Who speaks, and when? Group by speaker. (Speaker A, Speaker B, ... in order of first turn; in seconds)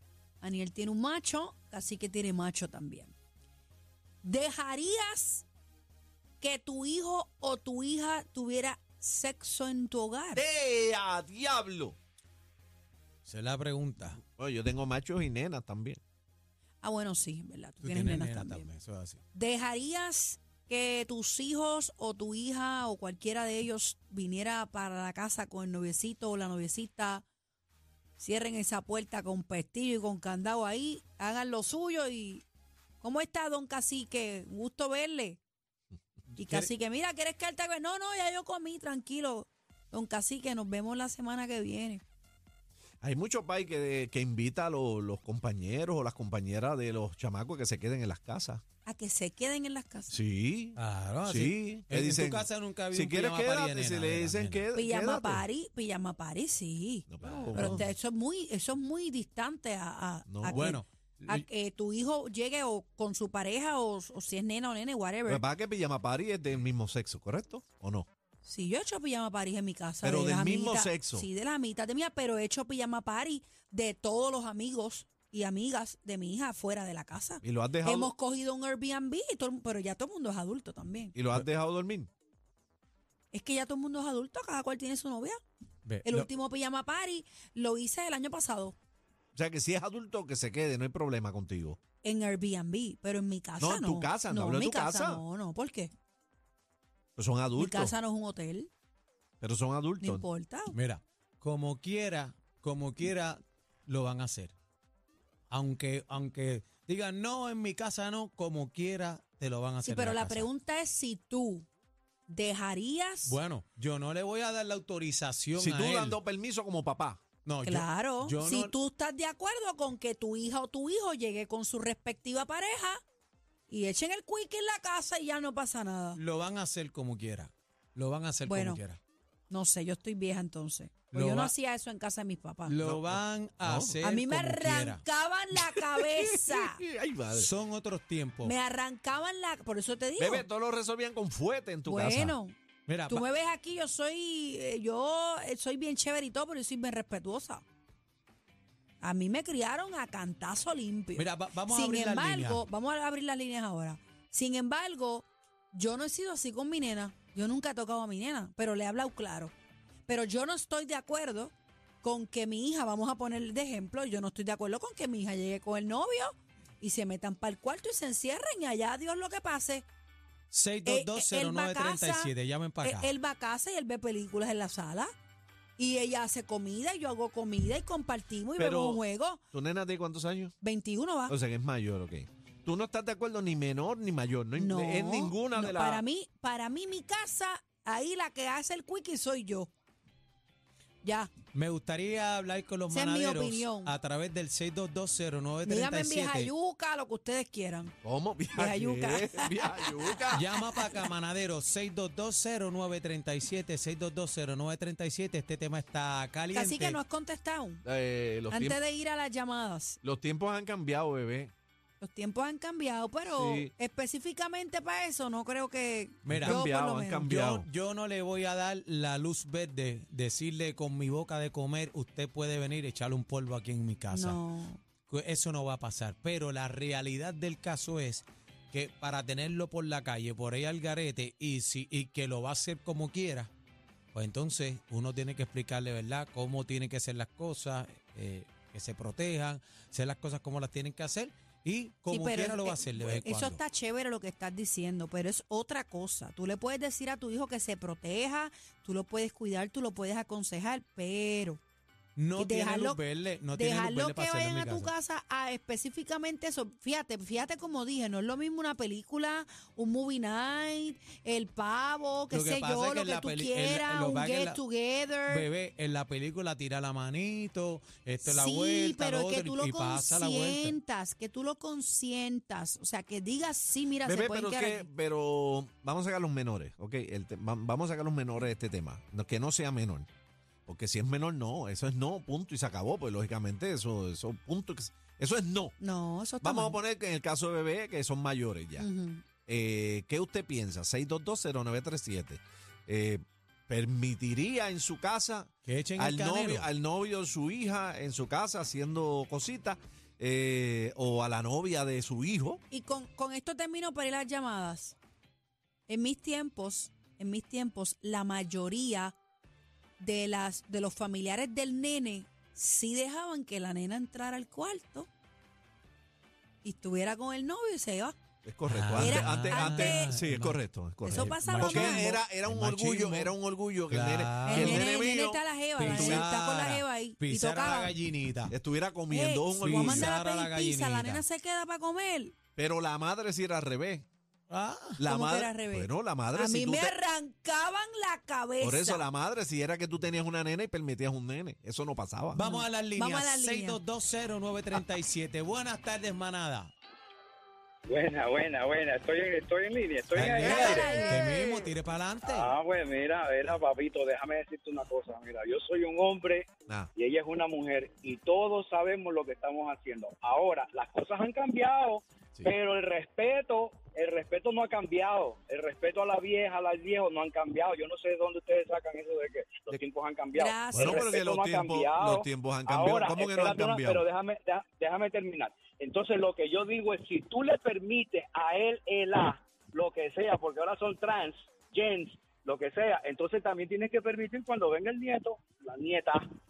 Speaker A: 0.4-3.1, 4.2-5.5, 6.4-10.4, 16.8-18.7, 19.3-27.2, 28.2-32.5, 33.0-35.4, 36.4-42.0, 48.9-50.1, 54.7-65.4, 68.4-81.2, 83.3-85.4, 86.0-88.8, 92.0-95.9, 97.6-98.7, 100.0-100.8, 109.8-111.7, 112.3-113.4, 117.7-123.0, 123.7-126.2, 128.5-128.8, 129.5-132.8, 134.0-136.8, 138.4-140.5, 141.9-142.6, 143.1-147.6, 149.0-159.5, 160.1-169.9, 170.8-175.1, 175.8-179.4, 180.6-181.3, 184.6-189.7, 191.0-191.3, 192.9-193.9, 195.6-197.9, 198.6-200.9, 206.5-207.8, 208.5-210.0, 212.0-217.3, 224.1-224.8, 242.1-251.6, 252.4-253.0, 253.5-265.5, 268.2-274.9, 285.8-286.8, 288.8-289.2, 302.7-305.0, 305.9-309.2, 310.0-315.1, 316.6-318.2, 319.0-320.1, 321.1-322.1, 324.5-327.9, 329.1-332.4, 335.1-339.0, 342.4-343.8, 350.4-351.2, 370.3-371.1
Speaker B: 10.3-12.0, 14.4-16.0, 43.0-48.6, 50.1-55.5, 57.1-57.9, 60.3-60.8, 65.3-68.1, 70.0-71.3, 77.4-78.1, 81.2-82.1, 89.3-91.8, 93.6-95.2, 97.2-97.9, 99.4-100.3, 115.5-117.2, 132.8-134.0, 135.6-137.5, 140.2-142.3, 178.6-180.6, 181.3-186.0, 198.0-200.5, 207.8-208.8, 210.0-211.5, 213.3-213.7, 216.3-217.7, 274.1-280.1, 280.7-285.8, 286.4-288.9, 289.5-302.6, 318.4-326.3, 328.5-330.1, 332.6-334.1, 335.0-336.9, 338.6-342.4, 350.4-351.7, 370.7-374.0
Speaker C: 13.3-14.2, 17.8-19.2, 36.4-36.7, 50.8-54.7, 57.2-57.8, 60.5-61.5, 85.8-86.3, 100.7-104.5, 105.5-110.5, 113.2-116.2, 117.5-118.7, 126.2-129.0, 131.1-131.5, 132.7-135.0, 137.3-138.5, 142.9-143.3, 151.2-152.6, 170.5-173.2, 191.5-196.5, 200.3-207.0, 216.3-224.4, 225.0-233.5, 234.1-243.6, 252.2-254.9, 262.3-264.6, 265.3-270.8, 295.6-296.7, 318.6-323.4, 323.9-324.9, 325.8-328.6, 329.6-331.2, 334.5-335.0, 342.3-346.7, 350.1-352.6
Speaker D: 347.9-350.9, 352.3-386.3